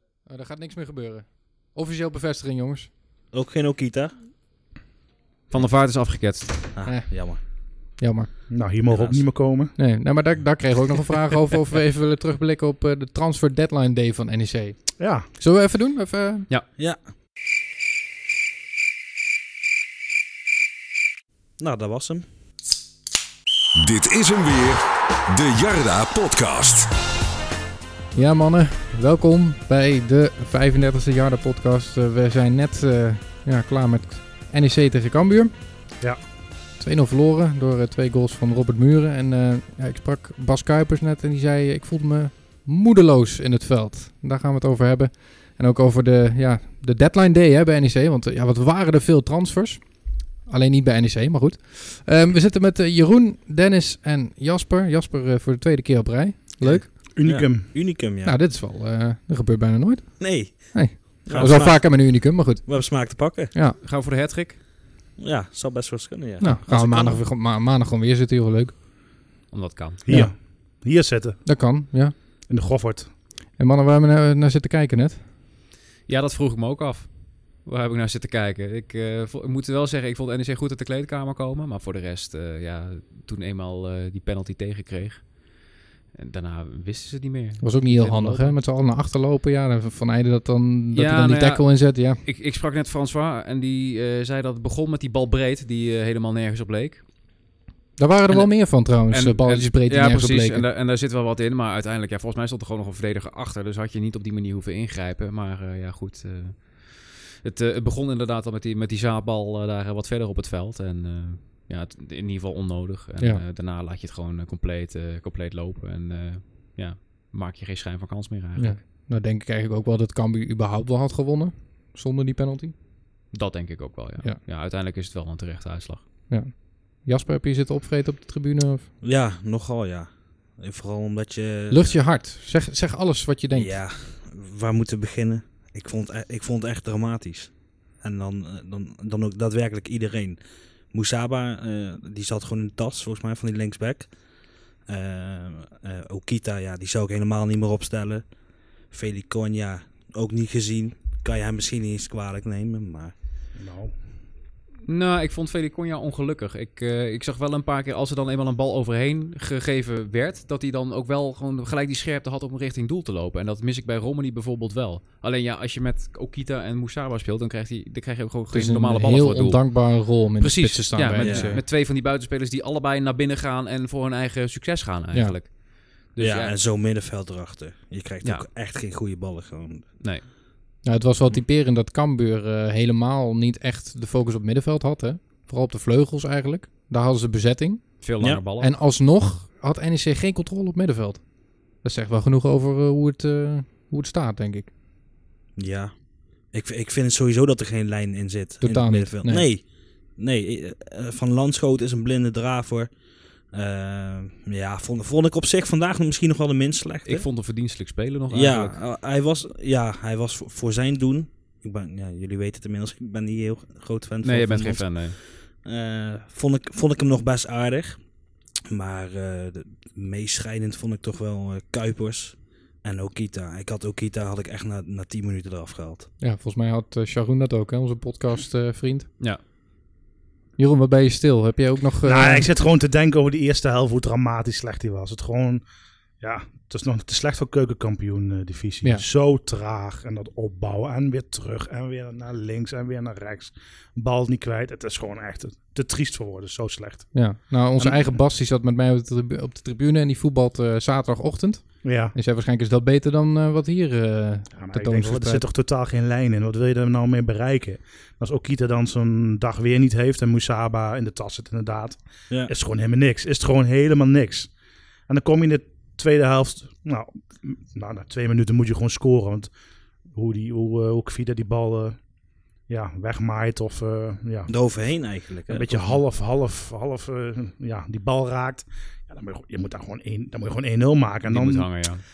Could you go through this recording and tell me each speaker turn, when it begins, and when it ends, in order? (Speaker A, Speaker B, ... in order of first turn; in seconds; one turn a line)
Speaker A: 0.3-2.9
Speaker B: 3.3-4.2
Speaker C: 5.5-6.7
Speaker B: 6.7-7.4
Speaker A: 8.0-8.3
Speaker D: 8.5-9.8
Speaker B: 8.9-9.2
Speaker A: 9.8-16.5
Speaker D: 15.0-15.3
Speaker B: 21.6-22.2
Speaker E: 23.8-26.9
Speaker A: 28.1-35.5
Speaker A: 36.8-56.9
Speaker B: 56.6-58.4
Speaker D: 57.1-57.7
Speaker A: 58.2-63.8
Speaker B: 60.2-63.5
Speaker D: 61.3-61.6
Speaker C: 63.8-64.6
Speaker B: 65.2-67.2
Speaker A: 66.4-68.7
Speaker C: 69.5-70.0
Speaker D: 70.0-71.4
Speaker A: 71.5-72.1
Speaker D: 72.5-73.1
Speaker A: 73.6-75.2
Speaker C: 76.1-88.5
Speaker A: 87.6-92.2
Speaker C: 90.9-97.0
Speaker A: 98.0-100.6
Speaker C: 98.3-118.8
Speaker A: 118.6-122.7
Speaker C: 123.3-126.0
Speaker A: 126.3-128.9
Speaker B: 129.0-131.9
Speaker A: 131.7-133.8
Speaker B: 133.5-140.4
Speaker B: 140.9-144.1
Speaker B: 144.9-148.2
Speaker B: 148.9-153.1
Speaker D: 153.6-153.9
Speaker C: 154.8-176.5
Speaker A: 168.5-171.6
Speaker B: 171.2-171.5
Speaker B: 176.2-179.9
Speaker C: 180.0-180.2
Speaker A: 180.8-187.9
Speaker C: 188.0-188.7
Speaker A: 188.6-194.7
Speaker B: 195.6-195.9
Speaker B: 196.5-202.9
Speaker A: 198.6-199.5
Speaker B: 203.5-207.2
Speaker C: 207.1-208.8
Speaker B: 208.3-215.0
Speaker C: 214.2-215.2
Speaker B: 215.6-218.0
Speaker B: 218.7-226.1
Speaker A: 226.2-229.1
Speaker A: 230.6-232.5
Speaker D: 232.0-235.6
Speaker D: 236.2-247.1
Speaker A: 247.1-255.4
Speaker D: 247.8-248.2
Speaker D: 251.8-252.1
Speaker D: 254.5-264.5
Speaker D: 265.1-269.5
Speaker D: 270.1-272.0
Speaker D: 272.7-274.5
Speaker B: 274.5-276.0
Speaker D: 275.5-281.9
Speaker C: 281.3-282.0